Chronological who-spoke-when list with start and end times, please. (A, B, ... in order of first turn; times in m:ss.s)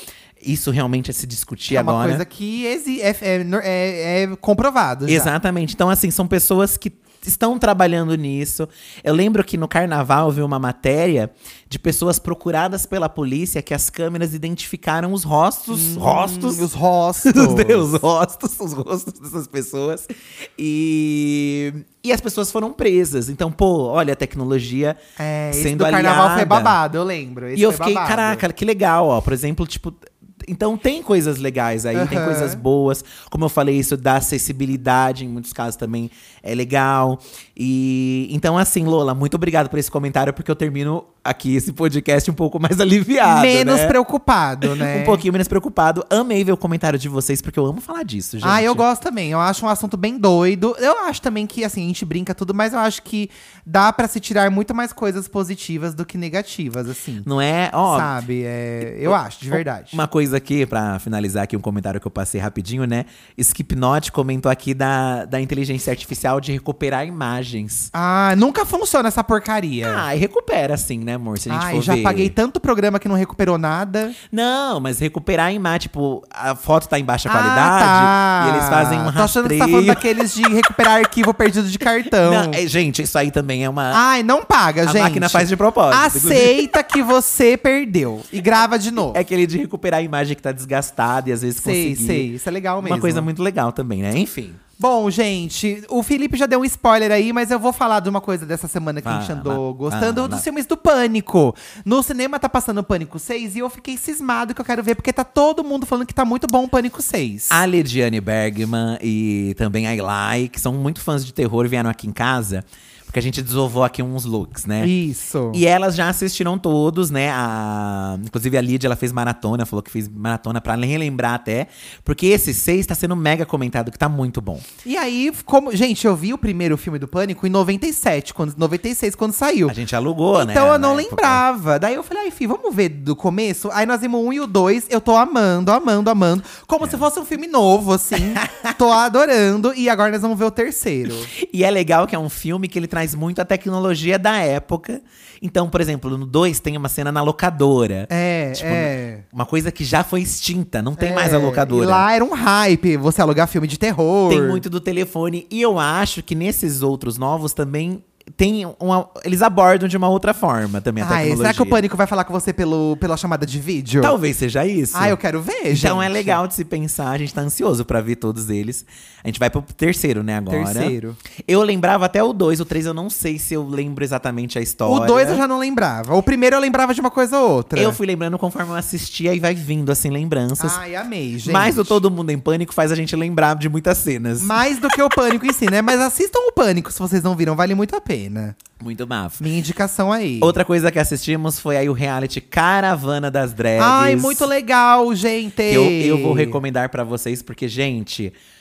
0:00.4-0:02.2 A
0:01.7-0:05.3 B
0:05.1-0:16.7 A
0:15.7-0:17.9 B
0:17.2-0:25.0 A
0:25.2-0:28.4 B
0:25.5-0:26.8 A
0:27.5-0:44.0 A
0:31.9-0:32.6 B
0:43.2-0:45.2 B
0:44.6-0:48.8 A
0:48.4-0:57.3 B
0:57.2-0:58.1 A
0:57.8-1:00.0 B
0:59.0-1:07.9 A
1:07.9-1:10.0 B
1:09.8-1:12.3 A
1:11.5-1:14.2 B
1:14.3-1:20.2 A
1:17.3-1:22.6 B
1:22.1-1:24.0 A
1:23.9-1:29.2 B
1:24.8-1:26.8 A
1:29.0-1:34.6 A
1:31.6-1:33.3 B
1:34.8-1:47.6 B
1:39.0-1:40.4 A
1:47.5-1:54.9 A
1:54.8-1:55.6 B
1:55.5-2:04.6 A
2:04.8-2:09.8 B
2:09.7-2:11.4 A
2:10.3-2:21.3 B
2:18.1-2:18.7 A
2:21.3-2:32.0 A
2:28.1-2:29.2 B
2:31.0-2:34.6 B
2:34.3-2:41.8 A
2:41.0-2:44.2 B
2:44.0-2:45.2 A
2:44.9-2:46.4 B
2:45.7-2:55.4 A
2:50.5-2:51.2 B
2:54.8-2:58.0 B
2:57.7-3:00.8 A
3:00.6-3:02.0 B
3:01.4-3:04.6 A
3:04.4-3:08.6 B
3:08.8-3:09.4 A
3:09.4-3:10.5 B
3:10.4-3:14.5 A
3:13.8-3:16.6 B
3:15.7-3:18.3 A